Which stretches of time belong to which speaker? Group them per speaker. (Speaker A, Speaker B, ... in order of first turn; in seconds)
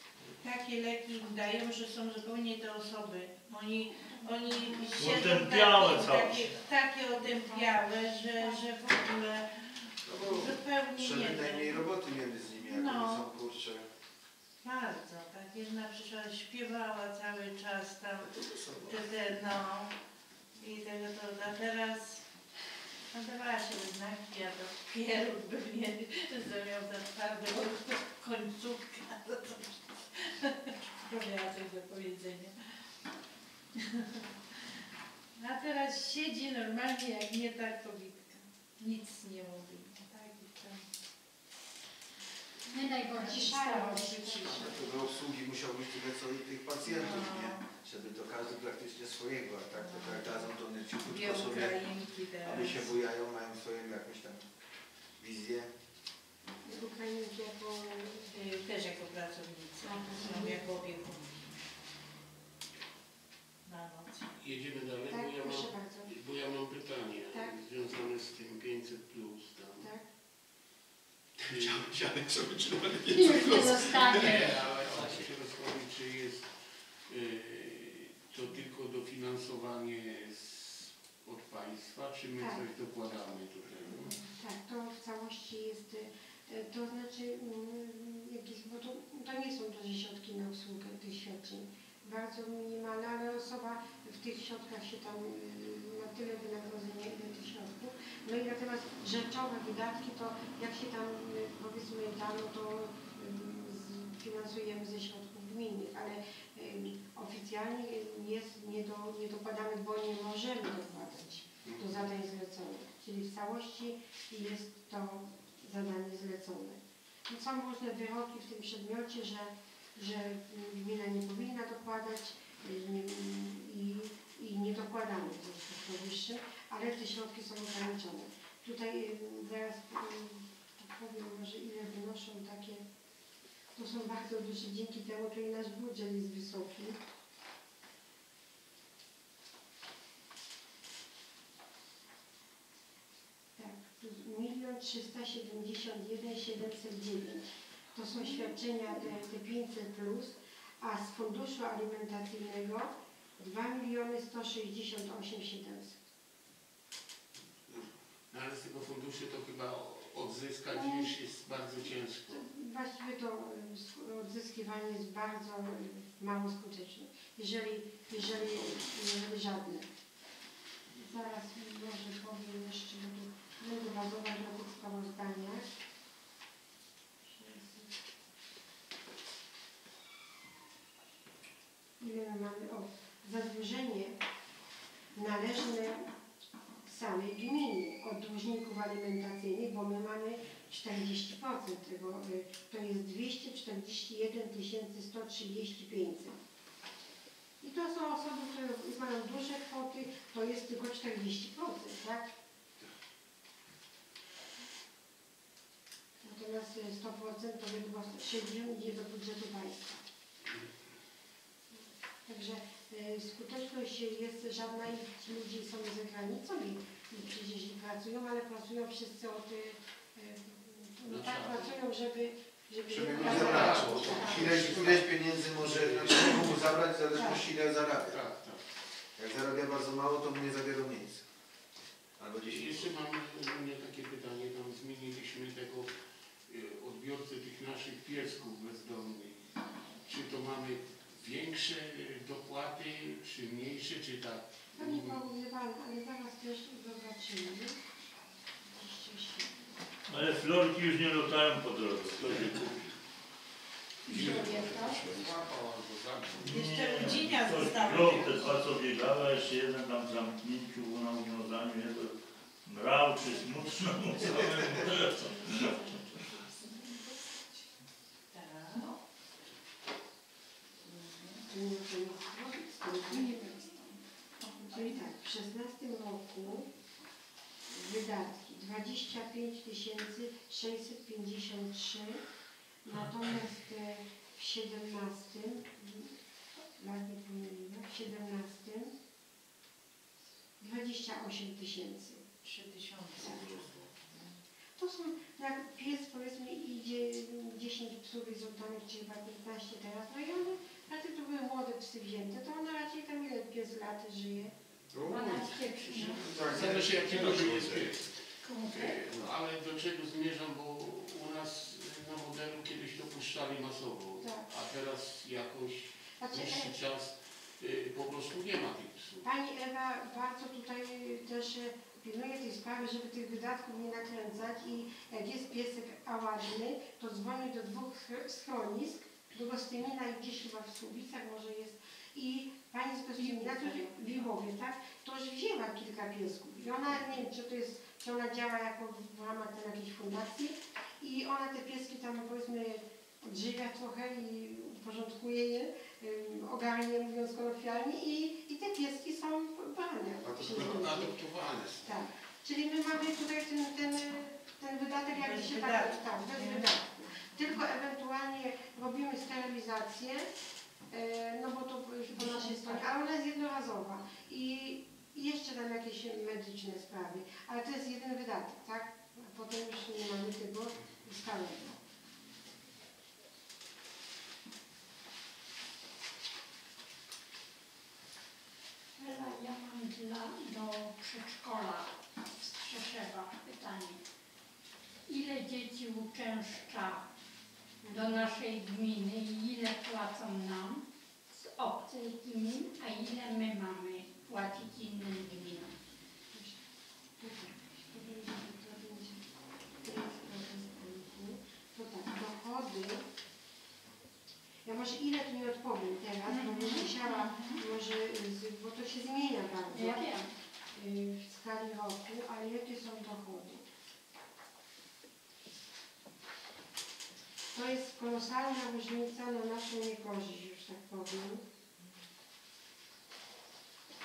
Speaker A: 0.4-11.8, 12.6-13.2, 14.6-18.3, 18.9-19.9, 20.6-22.2, 23.1-32.5, 33.8-34.6, 35.4-40.8, 44.3-44.6, 46.8-47.6, 49.7-52.9, 58.3-61.6, 63.6-64.3, 256.5-258.6, 268.3-269.0, 270.8-271.5, 274.4-275.0, 292.4-294.4, 355.1-356.7
Speaker B: 4.0-5.0, 7.2-7.8, 42.7-44.3, 73.1-74.6, 148.1-148.6, 223.2-224.8, 254.0-255.2, 305.1-306.3, 308.4-309.0, 333.2-334.3, 362.1-362.9, 379.0-384.0, 385.1-387.1, 387.9-395.7, 406.3-407.6, 409.7-410.3
Speaker C: 5.0-6.5, 250.1-252.9, 256.4-262.1, 262.6-265.8, 306.7-307.8
Speaker D: 10.0-13.8, 18.2-19.4, 44.5-51.8, 52.4-54.4, 55.2-55.7, 71.4-75.2, 222.9-228.2, 229.2-231.2, 232.2-232.9, 264.2-264.7, 304.9-307.9, 350.2-350.8
Speaker E: 43.2-44.8, 56.6-58.3, 59.8-60.6, 65.1-66.1, 83.9-132.8, 133.8-137.0, 143.6-156.0, 160.7-161.1, 162.3-169.9, 170.9-175.7, 177.2-177.9, 182.0-184.1, 185.1-186.1, 186.8-196.4, 197.6-202.3, 206.2-210.0, 212.2-224.8, 244.8-247.8, 248.6-249.7, 271.5-273.8, 274.7-276.7, 277.7-282.2, 282.8-286.2, 286.8-288.9, 290.6-292.2, 293.2-293.6, 294.8-304.5, 314.2-314.4, 316.2-316.7, 319.2-351.2, 351.8-360.3, 360.9-371.8, 387.8-388.2, 396.3-396.6, 397.2-399.2, 399.8-403.0, 404.6-410.1, 410.7-413.6, 417.5-421.4
Speaker F: 64.4-69.9, 71.4-71.9, 74.0-76.5, 77.1-84.2, 111.6-112.0, 157.7-162.5, 221.0-221.8, 223.0-226.7, 228.0-228.6, 232.5-235.9, 236.5-239.4, 240.1-245.2, 252.2-252.8, 254.0-257.4, 305.0-305.3, 305.9-319.3, 350.4-351.9